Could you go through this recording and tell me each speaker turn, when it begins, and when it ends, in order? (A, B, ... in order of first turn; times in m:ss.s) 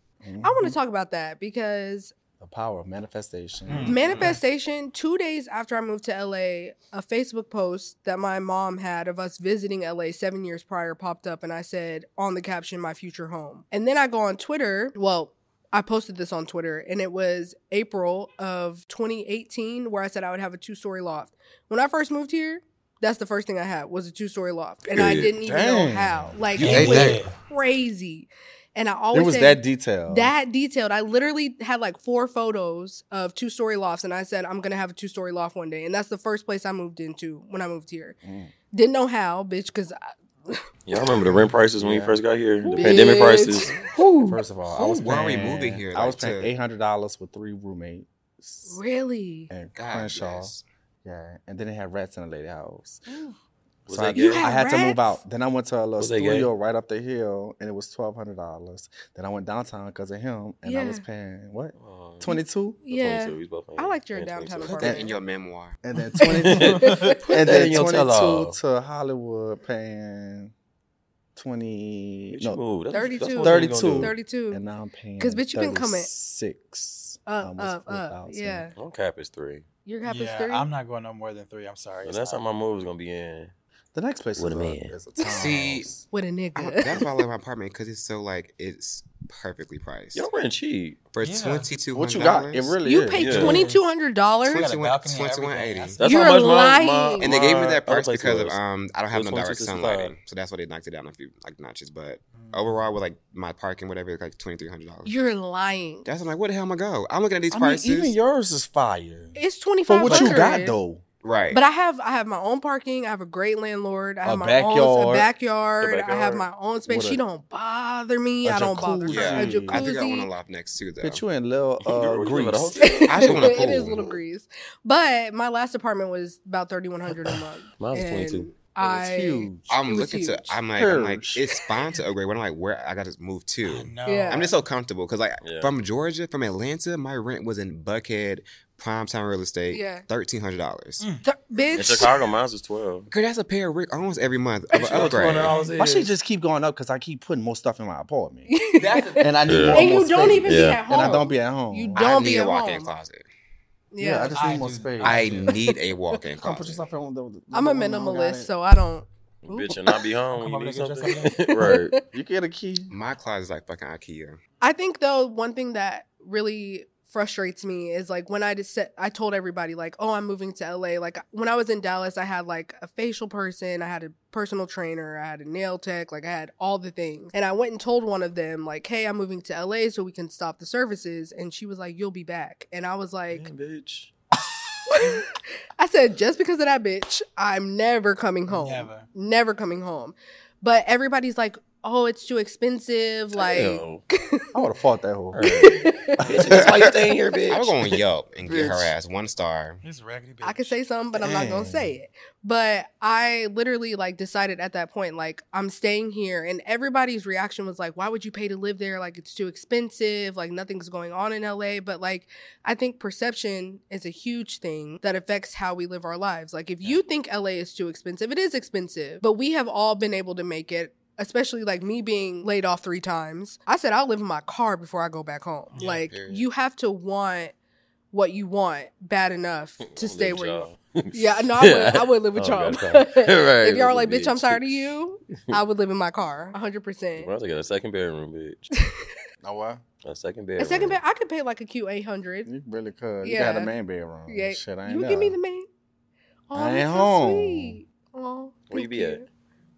0:00.2-0:00.8 A
0:00.4-0:02.1 B
0:02.4-0:04.0 A
0:03.7-0:04.2 C
0:03.8-0:04.4 D
0:03.8-0:38.2 B
0:24.9-0:25.3 E
0:25.4-0:27.2 A
0:26.6-0:27.3 C
0:26.6-0:27.2 D
0:29.1-0:30.3 A
0:38.2-0:38.5 A
0:38.7-0:40.6 B
0:40.9-0:44.2 E
0:41.3-0:43.2 A
0:42.8-0:44.3 B
0:44.2-0:48.8 A
0:44.7-0:46.5 D
0:48.7-0:49.5 B
0:49.5-0:53.1 A
0:49.8-0:50.6 D
0:53.9-1:02.8 A
0:53.9-0:54.5 E
0:54.2-0:55.2 B
0:56.0-0:56.5 E
1:00.6-1:01.0 B
1:01.8-1:02.4 E
1:02.8-1:05.2 B
1:02.9-1:04.8 E
1:04.7-1:05.8 D
1:04.8-1:05.1 A
1:05.8-1:10.5 A
1:06.2-1:07.3 B
1:06.4-1:08.6 E
1:06.8-1:07.1 C
1:11.4-1:12.6 A
1:12.3-1:14.1 E
1:12.9-1:14.6 B
1:13.4-1:18.7 A
1:15.2-1:16.1 B
1:17.3-1:18.7 B
1:18.8-1:19.6 E
1:19.9-1:20.7 B
1:20.0-1:22.4 C
1:22.0-1:23.5 E
1:23.9-1:26.0 A
1:24.4-1:24.9 E
1:25.2-1:25.9 D
1:26.1-1:27.2 B
1:26.6-1:30.3 D
1:30.1-1:31.1 E
1:31.1-1:32.8 D
1:31.2-1:31.7 C
1:31.9-1:33.6 A
1:32.8-1:34.7 B
1:33.2-1:33.6 E
1:33.4-1:33.8 C
1:34.5-1:36.0 D
1:34.5-1:36.0 C
1:36.0-1:38.6 E
1:36.0-1:37.3 B
1:37.2-1:45.1 D
1:39.1-1:40.1 E
1:42.3-1:42.9 C
1:45.1-1:46.1 B
1:46.0-1:48.2 D
1:47.5-1:51.0 A
1:49.4-1:50.8 B
1:50.1-1:50.4 E
1:51.2-1:51.6 D
1:51.5-2:00.3 B
1:54.2-1:55.3 A
1:55.8-1:56.5 E
1:56.9-1:57.2 A
1:58.4-1:59.9 A
1:59.1-2:01.2 D
2:01.0-2:02.8 A
2:01.8-2:03.8 E
2:02.8-2:10.6 B
2:03.1-2:04.1 D
2:07.8-2:08.5 E
2:08.8-2:09.7 A
2:09.7-2:21.0 D
2:10.8-2:11.5 A
2:13.6-2:14.5 C
2:14.1-2:14.5 B
2:15.4-2:15.7 E
2:19.7-2:20.0 B
2:21.2-2:22.1 B
2:21.8-2:23.1 E
2:23.1-2:25.6 D
2:24.8-2:26.1 E
2:24.9-2:25.8 C
2:25.8-2:28.5 A
2:28.5-2:32.9 B
2:28.8-2:29.3 D
2:29.2-2:32.0 A
2:29.5-2:29.9 E
2:30.4-2:30.8 E
2:32.0-2:33.3 D
2:33.9-2:34.4 B
2:34.0-2:35.4 A
2:34.3-2:35.6 C
2:35.0-2:36.8 D
2:36.4-2:38.5 A
2:37.5-2:40.0 B
2:39.4-2:41.9 E
2:40.3-2:41.4 C
2:41.6-2:42.0 B
2:42.0-2:42.9 A
2:42.9-2:44.4 D
2:44.6-3:03.5 B
3:03.3-3:04.1 E
3:04.9-3:14.5 B
3:08.5-3:09.1 C
3:13.3-3:14.0 E
3:14.5-3:15.4 A
3:15.3-3:18.9 E
3:15.4-3:16.2 B
3:16.2-3:17.0 A
3:16.5-3:16.9 D
3:17.5-3:19.8 D
3:19.8-3:20.8 C
3:20.4-3:47.5 B
3:21.2-3:21.9 A
3:45.7-3:46.0 C
3:45.8-3:46.5 D
3:48.1-3:57.3 B
3:49.8-3:54.9 E
3:57.2-3:58.7 E
3:58.7-3:59.1 B
3:59.4-3:59.8 A
4:00.0-4:01.0 E
4:00.6-4:02.5 B
4:02.4-4:05.4 A
4:03.2-4:03.7 B
4:04.3-4:05.7 B
4:06.5-4:09.2 B
4:06.5-4:07.8 A
4:08.7-4:09.2 E